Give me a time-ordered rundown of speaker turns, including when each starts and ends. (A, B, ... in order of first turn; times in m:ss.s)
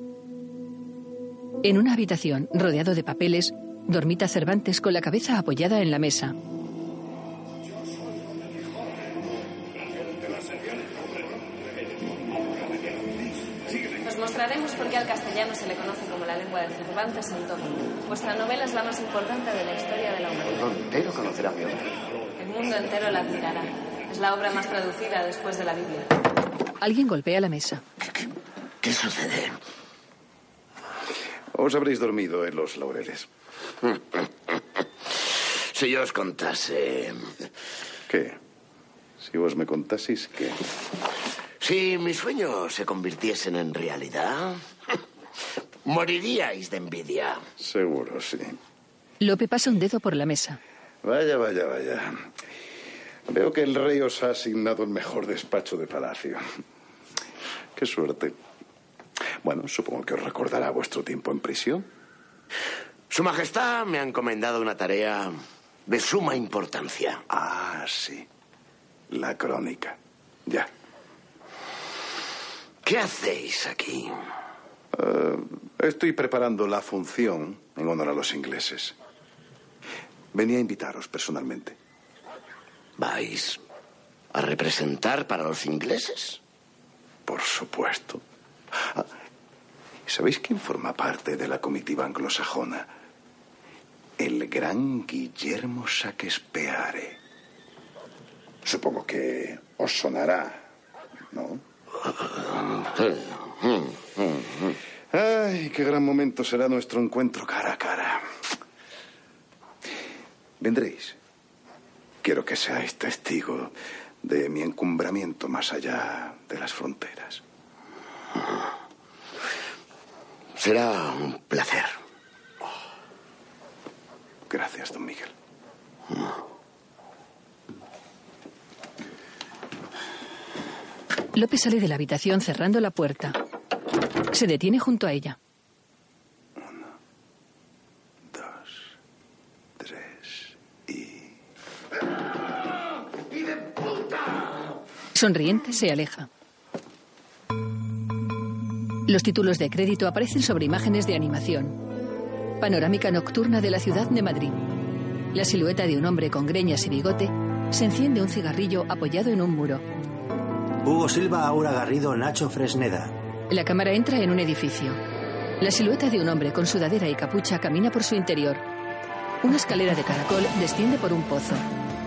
0:01.6-0:06.3 A
0:14.0-0:20.7 B
0:20.8-0:21.8 C
0:22.4-0:26.1 B
0:26.8-0:27.8 A
0:28.8-0:29.6 C
0:31.5-0:33.3 D
0:35.7-0:37.3 C
0:38.1-0:38.4 D
0:39.2-0:40.6 D
0:41.6-0:44.6 C
0:45.8-0:47.4 C
0:47.6-0:48.6 D
0:49.2-0:50.6 A
0:51.0-0:52.2 D
0:53.3-0:56.4 D
0:57.8-0:58.4 D
0:59.4-1:01.9 D
1:03.1-1:05.3 C
1:05.9-1:07.2 C
1:07.3-1:08.3 D
1:09.1-1:10.7 D
1:12.8-1:14.1 C
1:14.9-1:18.9 D
1:20.3-1:21.8 D
1:23.0-1:23.6 C
1:24.3-1:26.4 C
1:27.2-1:28.2 D
1:30.1-1:32.9 D
1:34.2-1:37.2 D
1:38.6-1:40.6 D
1:41.3-1:41.6 D
1:45.1-1:48.2 D
1:50.6-1:51.2 D
1:52.2-1:57.4 D
2:00.6-2:02.0 C
2:04.5-2:05.3 D
2:11.3-2:13.4 A
2:14.3-2:15.4 A
2:18.3-2:18.8 D
2:19.8-2:21.3 D
2:25.1-2:26.3 A
2:29.1-2:31.8 A
2:32.6-2:34.6 A
2:35.3-2:39.8 A
2:40.8-2:43.2 E
2:43.5-2:45.0 A
2:45.6-2:48.6 A
2:49.4-2:51.6 A